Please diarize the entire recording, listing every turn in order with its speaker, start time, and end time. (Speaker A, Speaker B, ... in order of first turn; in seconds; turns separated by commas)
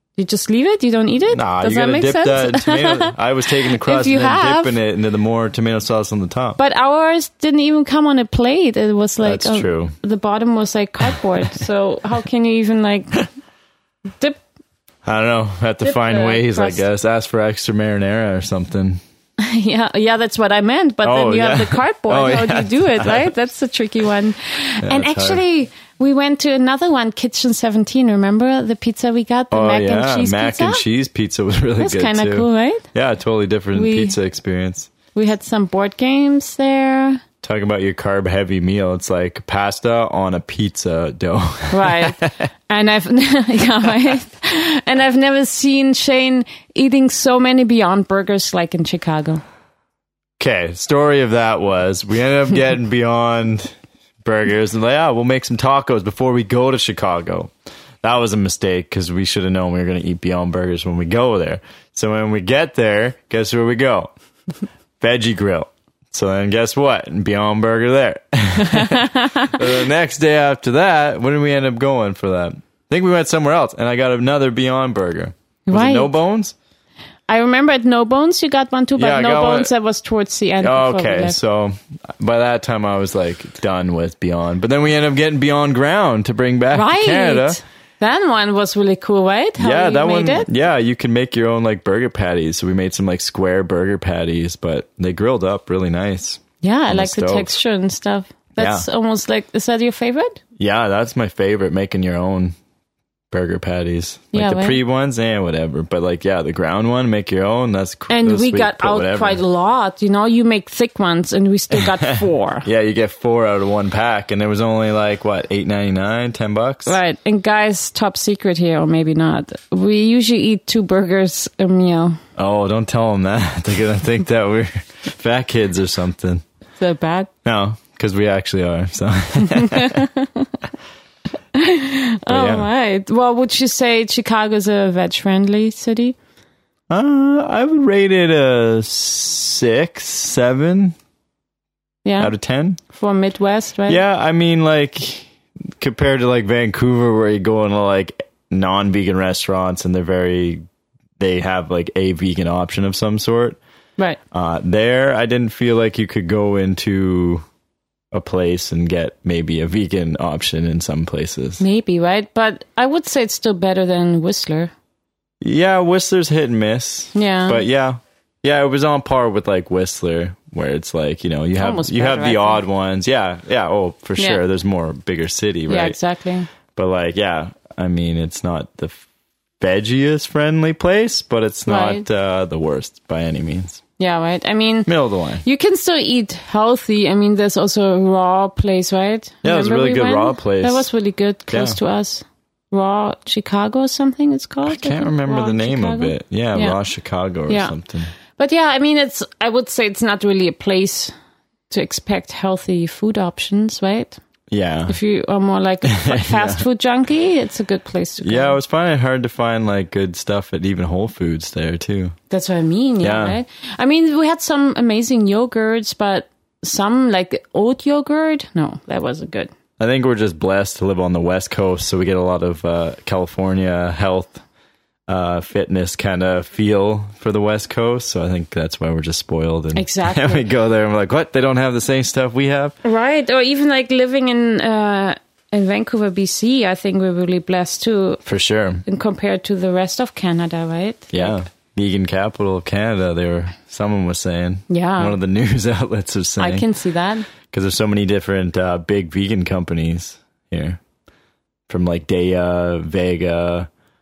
Speaker A: 0.2-4.8, Speaker B: 1.3-6.6, Speaker A: 6.6-13.3, Speaker B: 9.2-9.9, Speaker B: 15.1-19.0, Speaker A: 15.8-16.8, Speaker A: 19.4-30.8, Speaker B: 21.0-23.3, Speaker B: 24.8-25.4, Speaker B: 29.5-34.9, Speaker A: 31.8-32.9, Speaker A: 33.7-34.2, Speaker A: 35.1-37.2, Speaker B: 37.4-42.4, Speaker A: 41.7-49.4, Speaker B: 50.4-64.1, Speaker B: 65.0-76.5, Speaker A: 68.6-69.6, Speaker A: 75.7-76.1, Speaker A: 77.3-81.4, Speaker B: 79.0-79.7, Speaker B: 80.6-87.6, Speaker A: 86.7-90.5, Speaker B: 89.6-97.5, Speaker A: 96.6-100.4, Speaker B: 98.6-98.8, Speaker B: 100.6-102.5, Speaker B: 103.3-109.4, Speaker A: 104.3-104.8, Speaker A: 108.1-112.7, Speaker B: 111.8-117.0, Speaker A: 116.9-122.2, Speaker B: 122.4-126.4, Speaker A: 126.8-127.3, Speaker B: 127.4-130.1, Speaker A: 129.4-130.5, Speaker A: 131.5-136.2, Speaker B: 132.3-132.7, Speaker B: 136.9-140.9, Speaker A: 142.1-142.3, Speaker B: 142.2-142.8, Speaker A: 142.9-144.0, Speaker B: 143.9-150.6, Speaker B: 151.2-153.6, Speaker B: 154.3-157.4, Speaker B: 158.1-161.6, Speaker A: 161.6-164.7, Speaker B: 165.4-176.0, Speaker A: 167.2-167.6, Speaker A: 171.6-172.6, Speaker A: 175.7-176.5, Speaker B: 176.8-179.0, Speaker B: 179.6-183.8, Speaker A: 181.7-182.1, Speaker A: 184.0-184.9, Speaker B: 184.9-185.4, Speaker A: 185.4-196.8, Speaker B: 189.4-190.9, Speaker B: 191.5-191.8, Speaker B: 194.7-198.1, Speaker A: 197.5-197.8, Speaker A: 198.3-201.1, Speaker A: 201.7-204.2, Speaker B: 204.5-205.0, Speaker A: 204.9-208.6, Speaker B: 205.8-206.6, Speaker B: 208.2-212.2, Speaker A: 212.3-219.5, Speaker B: 213.0-213.4, Speaker B: 219.8-224.4, Speaker B: 225.1-232.8, Speaker A: 229.8-230.5, Speaker A: 232.8-238.2, Speaker B: 238.2-238.8, Speaker A: 238.8-241.4, Speaker B: 241.1-246.7, Speaker A: 244.7-245.2, Speaker A: 246.4-247.3, Speaker B: 247.5-250.8, Speaker B: 251.7-253.7